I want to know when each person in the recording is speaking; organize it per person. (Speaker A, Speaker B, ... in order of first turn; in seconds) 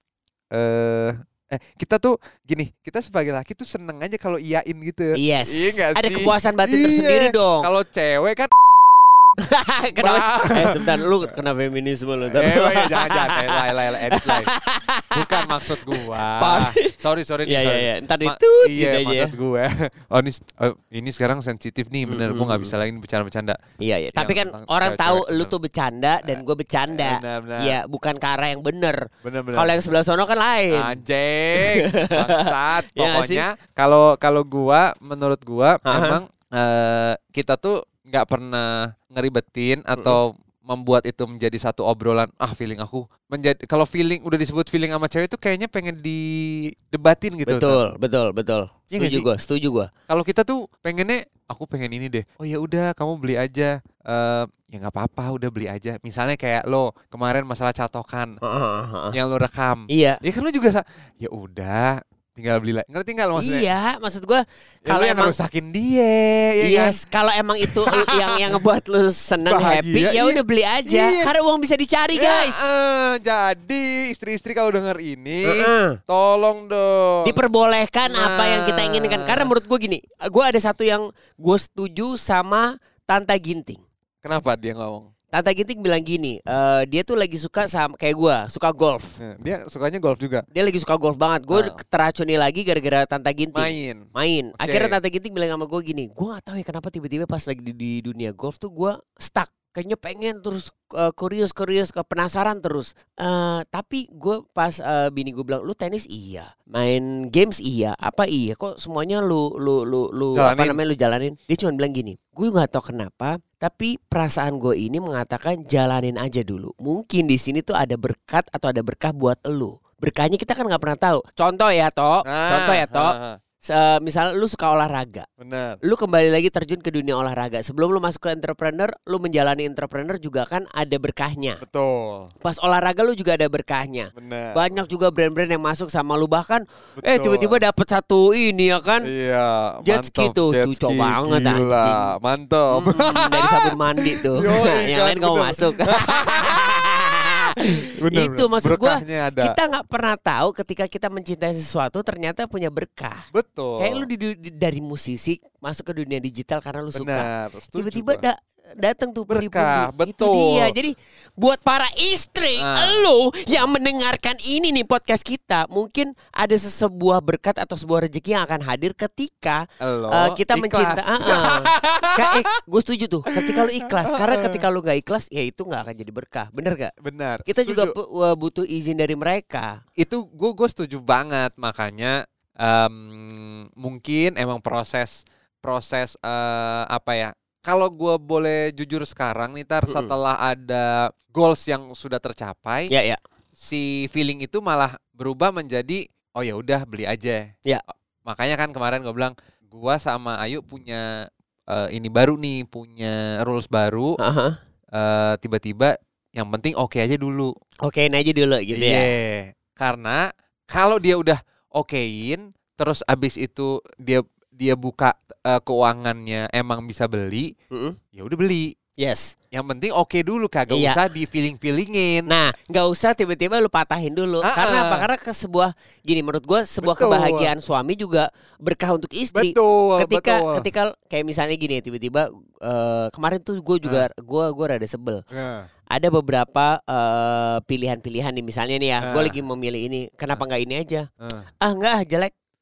Speaker A: 0.5-8.5, 9.9-10.9, 12.3-14.5, 15.1-23.6, 24.1-25.5, 26.2-27.8, 29.2-29.7, 30.7-47.8, 48.9-49.3, 50.1-58.3, 59.1-63.7, 64.8-67.0, 67.6-68.6, 69.4-71.3, 72.1-77.4, 78.0-79.5, 84.2-85.1, 89.2-90.4, 91.5-91.8, 93.5-94.1, 94.6-95.0, 110.3-110.8, 122.2-123.4, 125.4-125.8, 131.6-132.3, 134.1-134.6, 137.0-137.6, 139.1-146.7, 147.6-149.6, 153.3-154.1, 156.9-158.2, 159.3-160.7, 162.6-163.1, 169.8-172.4, 173.3-174.6, 177.0-177.9, 180.0-192.9, 193.6-197.4, 198.2-201.0, 201.7-204.1, 204.9-207.5, 208.7-210.2, 210.7-217.5, 218.1-218.7, 219.5-222.2, 224.4-225.1, 226.8-227.5, 229.3-230.7, 233.8-234.1, 235.3-235.7, 239.0-239.4, 241.2-241.4
Speaker B: 5.2-7.7, 9.5-16.9, 17.4-19.3, 22.1-22.7, 23.8-29.0, 29.5-31.0, 31.6-33.5, 35.9-36.2, 47.5-49.9, 58.4-59.1, 59.9-60.2, 63.4-65.4, 66.6-72.7, 75.5-76.0, 77.2-83.8, 85.3-89.2, 90.5-125.3, 125.8-131.6, 132.4-139.1, 139.8-142.1, 142.7-153.2, 153.8-176.9, 177.5-179.8, 189.9-190.1, 192.9-193.2, 204.2-204.6, 207.8-209.1, 217.7-218.0, 219.0-219.3, 220.7-221.0, 222.3-235.2, 235.9-241.1, 241.6-242.3